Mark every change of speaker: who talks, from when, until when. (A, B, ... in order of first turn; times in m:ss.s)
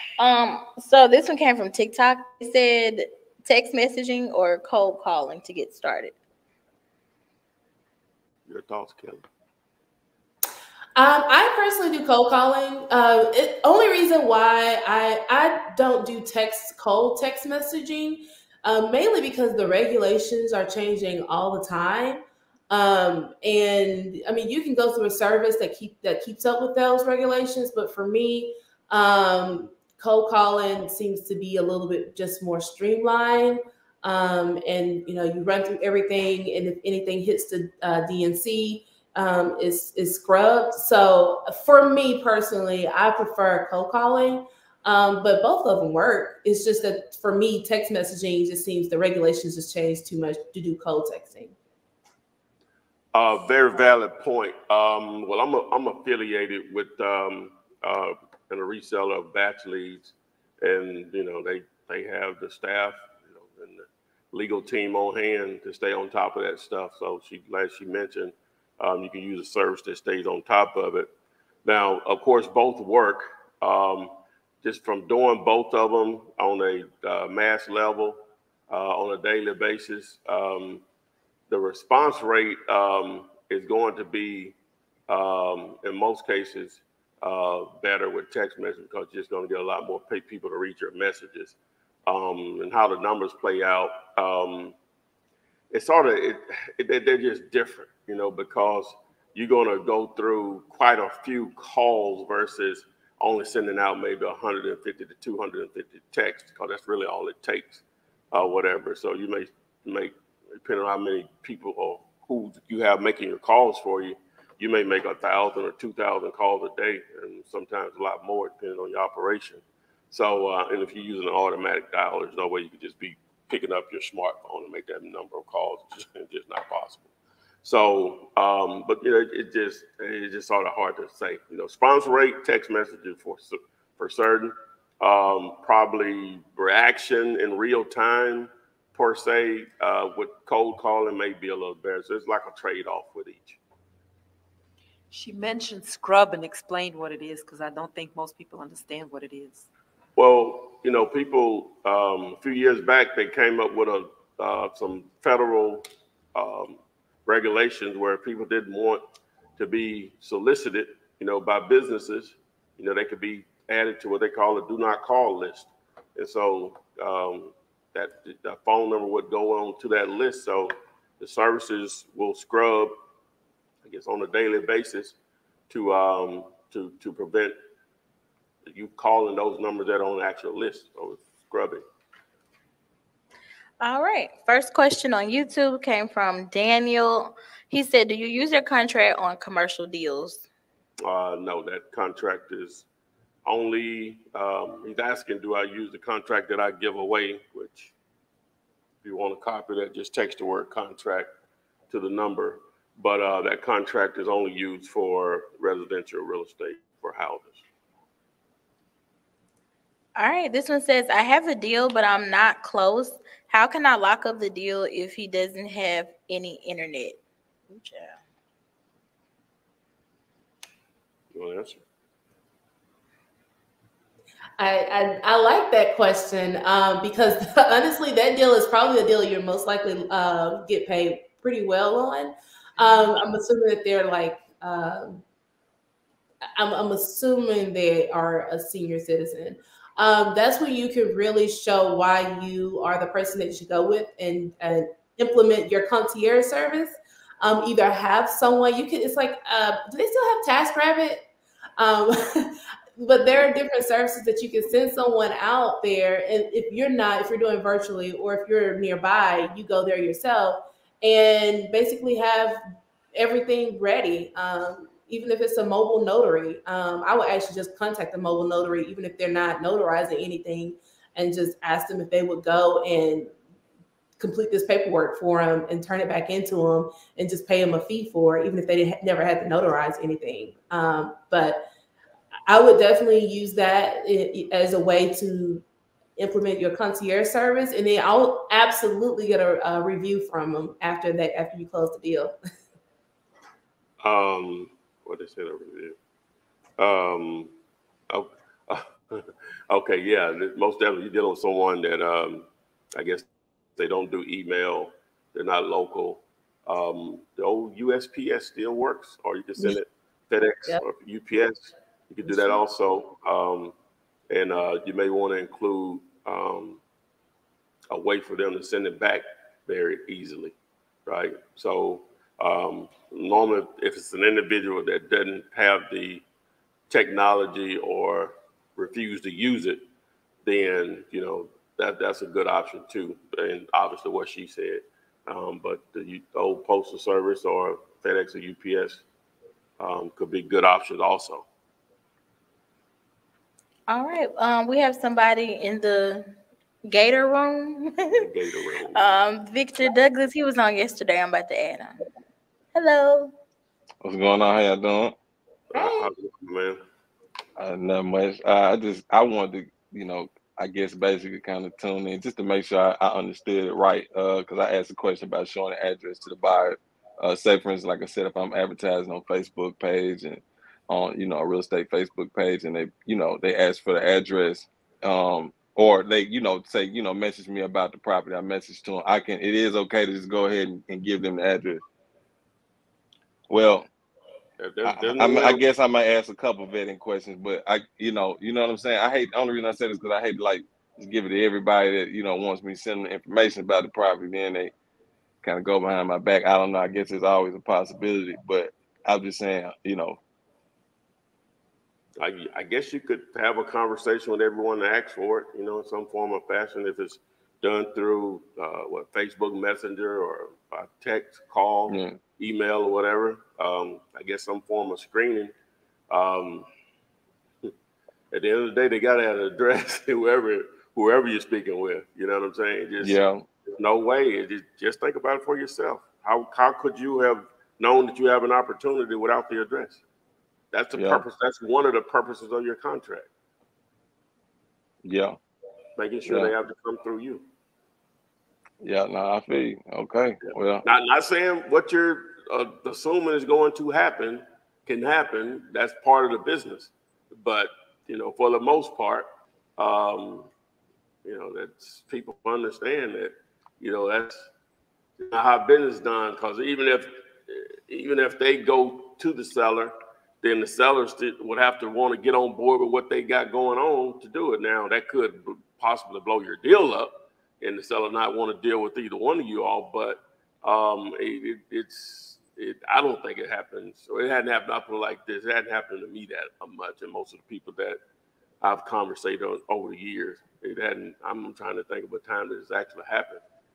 0:00.2-0:06.1 A
0:08.5-0:09.2 B
0:11.0-0:51.6 C
0:53.1-1:11.1 B
1:11.6-1:18.2 B
1:18.7-1:20.8 B
1:21.5-1:24.5 B
1:25.1-1:34.7 B
1:35.7-2:07.1 B
2:07.6-2:23.6 B
2:25.1-2:29.7 D
2:30.2-2:35.8 B
2:36.3-2:39.0 B
2:39.6-2:52.9 B
2:53.8-2:55.2 B
2:55.7-2:57.5 B
2:58.6-3:01.8 B
3:03.8-3:10.4 A
3:11.0-3:12.8 B
3:13.4-3:17.9 B
3:19.0-3:21.3 B
3:21.9-3:27.6 B
3:30.2-3:38.2 A
3:41.3-3:41.8 B
3:44.6-3:55.2 C
3:56.5-4:11.2 C
4:11.8-4:22.6 C
4:23.1-4:33.3 C
4:34.2-4:41.6 C
4:42.5-4:45.6 C
4:46.2-4:52.3 C
4:54.0-4:56.0 B
4:56.8-4:57.5 B
4:58.1-5:13.7 B
5:12.2-5:12.6 C
5:14.3-5:16.8 B
5:17.9-5:20.5 B
5:21.0-5:26.2 B
5:26.9-5:29.8 B
5:30.4-5:39.0 B
5:39.8-5:41.4 B
5:43.9-5:46.3 A
5:46.9-5:48.2 A
5:48.1-5:49.2 B
5:48.9-5:52.0 A
5:52.7-5:53.3 A
5:54.0-5:55.1 E
5:55.7-5:56.8 B
5:55.7-5:56.1 C
5:57.6-6:21.8 E
6:23.5-6:23.8 E
6:24.6-6:25.6 B
6:24.8-6:34.7 E
6:35.4-6:40.2 E
6:42.2-6:55.5 B
6:51.9-6:52.2 E
6:56.1-6:56.6 B
6:58.3-7:10.0 B
7:03.0-7:03.4 E
7:10.7-7:13.3 B
7:10.9-7:11.2 E
7:15.0-7:15.4 E
7:16.0-7:17.4 B
7:16.2-7:16.5 E
7:18.8-7:20.8 E
7:20.8-7:30.5 B
7:31.2-7:34.5 B
7:35.2-7:58.0 B
7:58.6-8:03.4 B